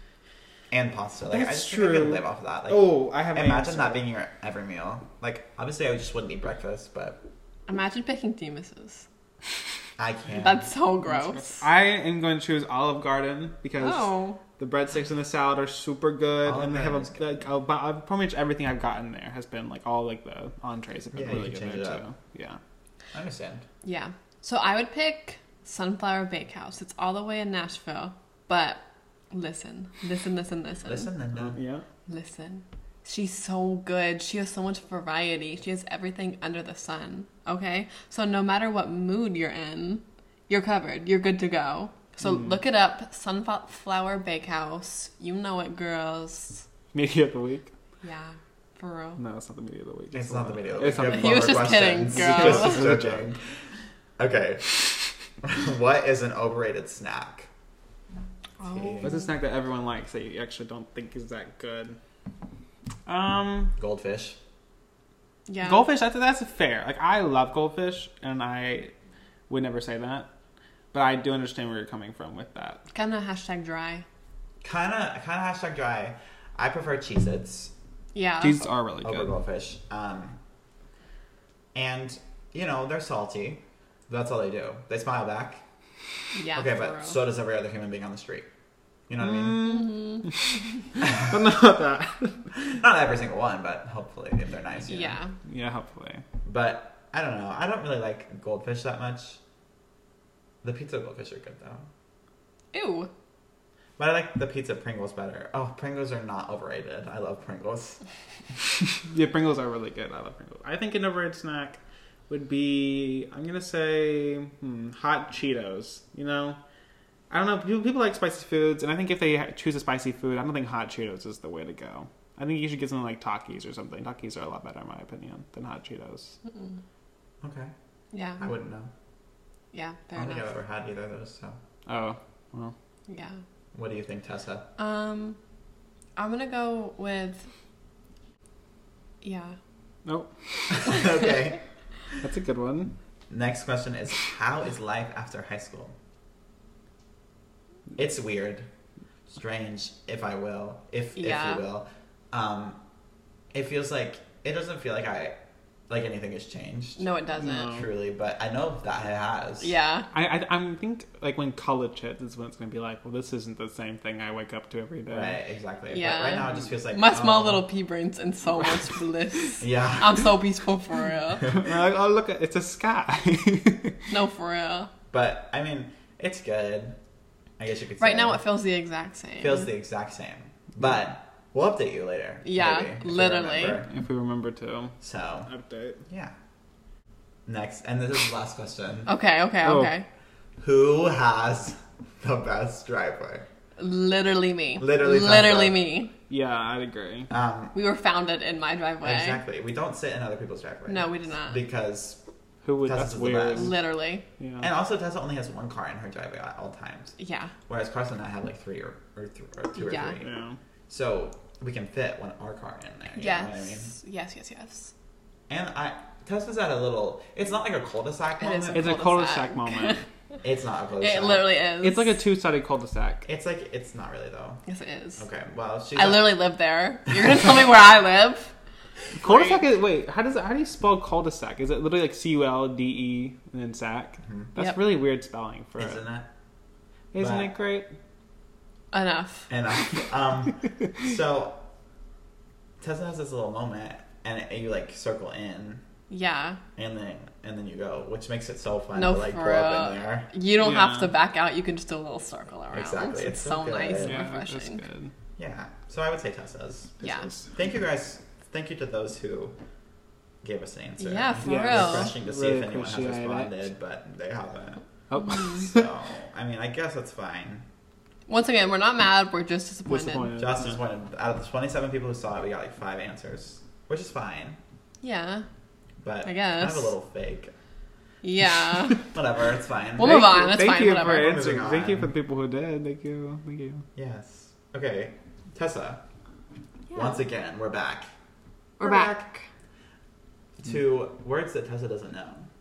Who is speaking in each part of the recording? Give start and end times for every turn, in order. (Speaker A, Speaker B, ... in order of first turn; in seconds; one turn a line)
Speaker A: 0.7-7.2
Speaker B: 1.3-4.0
Speaker C: 7.7-9.1
Speaker A: 10.0-10.7
Speaker C: 10.4-11.6
Speaker B: 11.2-22.6
Speaker C: 13.8-14.4
Speaker A: 16.4-17.3
Speaker A: 21.1-22.0
Speaker A: 23.1-23.6
Speaker C: 23.8-31.1
Speaker A: 30.9-31.6
Speaker B: 31.4-31.9
Speaker C: 32.1-46.7
Speaker B: 42.2-42.6
Speaker B: 46.9-47.7
Speaker C: 48.0-49.2
Speaker B: 49.2-53.3
Speaker A: 50.1-53.4
Speaker C: 50.9-52.9
Speaker A: 54.2-57.5
Speaker C: 58.6-59.3
Speaker A: 58.6-59.1
Speaker B: 59.0-62.0
Speaker B: 63.1-63.8
Speaker A: 63.8-64.4
Speaker C: 65.5-65.8
Speaker B: 65.6-68.9
Speaker B: 69.5-70.3
Speaker B: 70.9-72.8
Speaker C: 72.9-74.0
Speaker A: 74.6-77.7
Speaker C: 78.1-78.7
Speaker B: 78.4-79.3
Speaker A: 79.0-80.4
Speaker A: 81.8-85.6
Speaker C: 86.3-87.2
Speaker A: 86.5-88.5
Speaker A: 89.1-89.8
Speaker B: 89.2-92.5
Speaker C: 89.6-90.3
Speaker A: 91.0-91.3
Speaker A: 92.7-95.2
Speaker C: 94.9-95.3
Speaker B: 95.5-96.2
Speaker A: 96.5-99.4
Speaker A: 100.6-101.9
Speaker C: 102.7-103.1
Speaker A: 104.0-108.0
Speaker B: 109.0-116.6
Speaker B: 117.3-126.4
Speaker A: 127.4-127.7
Speaker C: 128.1-128.4
Speaker A: 128.4-128.9
Speaker C: 129.7-130.5
Speaker A: 130.2-131.6
Speaker B: 131.9-132.7
Speaker C: 133.1-133.4
Speaker A: 133.7-134.7
Speaker C: 134.8-135.4
Speaker C: 136.2-137.5
Speaker C: 139.2-139.6
Speaker B: 140.1-140.9
Speaker A: 140.7-141.6
Speaker C: 140.9-141.3
Speaker B: 142.2-142.9
Speaker A: 143.3-145.9
Speaker A: 148.0-148.7
Speaker A: 149.3-152.8
Speaker C: 151.2-151.6
Speaker A: 153.5-155.4
Speaker A: 155.9-157.0
Speaker C: 157.0-157.8
Speaker B: 157.4-157.9
Speaker A: 157.7-159.7
Speaker C: 159.6-160.1
Speaker B: 160.1-165.4
Speaker A: 165.1-167.7
Speaker C: 165.9-171.5
Speaker A: 169.6-170.3
Speaker B: 171.5-174.0
Speaker C: 174.1-174.9
Speaker A: 175.1-177.0
Speaker A: 177.6-178.4
Speaker C: 178.0-179.7
Speaker A: 179.4-183.9
Speaker C: 182.4-183.8
Speaker B: 183.8-184.9
Speaker A: 185.0-185.5
Speaker B: 185.5-186.0
Speaker A: 186.1-186.3
Speaker A: 187.5-189.1
Speaker C: 189.1-190.1
Speaker B: 189.6-189.9
Speaker A: 190.6-193.5
Speaker C: 193.8-196.1
Speaker A: 194.8-195.8
Speaker B: 196.3-197.3
Speaker A: 197.3-197.8
Speaker C: 197.7-199.4
Speaker A: 199.0-202.2
Speaker C: 200.9-201.6
Speaker B: 202.7-203.8
Speaker A: 202.8-203.7
Speaker C: 203.5-204.2
Speaker B: 204.4-204.7
Speaker A: 204.6-207.1
Speaker C: 207.2-207.5
Speaker A: 207.7-210.3
Speaker C: 209.8-210.2
Speaker B: 210.2-210.6
Speaker A: 210.9-213.9
Speaker C: 213.2-214.9
Speaker A: 215.5-219.0
Speaker C: 218.4-220.0
Speaker B: 218.7-220.0
Speaker A: 220.4-221.5
Speaker C: 221.0-222.2
Speaker B: 221.8-223.3
Speaker A: 223.3-224.6
Speaker C: 224.7-225.3
Speaker A: 225.2-226.4
Speaker C: 226.0-228.5
Speaker B: 229.2-236.0
Speaker C: 229.3-229.6
Speaker A: 235.8-236.3
Speaker B: 237.1-237.9
Speaker A: 237.2-237.5
Speaker C: 238.9-239.5
Speaker A: 239.5-241.6
Speaker A: 242.8-245.8
Speaker C: 246.1-246.6
Speaker A: 246.8-250.3
Speaker C: 249.0-254.8
Speaker B: 250.6-251.1
Speaker A: 252.7-254.2
Speaker B: 254.0-255.1
Speaker A: 255.4-259.6
Speaker C: 257.0-257.3
Speaker B: 257.2-257.5
Speaker A: 260.4-267.6
Speaker C: 261.0-262.1
Speaker B: 261.4-263.6
Speaker B: 265.1-265.8
Speaker C: 268.3-270.3
Speaker B: 269.9-270.8
Speaker A: 270.4-274.6
Speaker C: 275.0-275.5
Speaker A: 276.0-277.5
Speaker C: 276.2-276.9
Speaker C: 278.2-279.1
Speaker A: 279.1-280.4
Speaker C: 280.0-281.4
Speaker B: 280.0-283.9
Speaker A: 281.0-282.1
Speaker A: 284.0-286.0
Speaker C: 286.9-287.2
Speaker A: 286.9-288.1
Speaker C: 288.8-289.5
Speaker A: 288.8-289.2
Speaker A: 290.6-292.5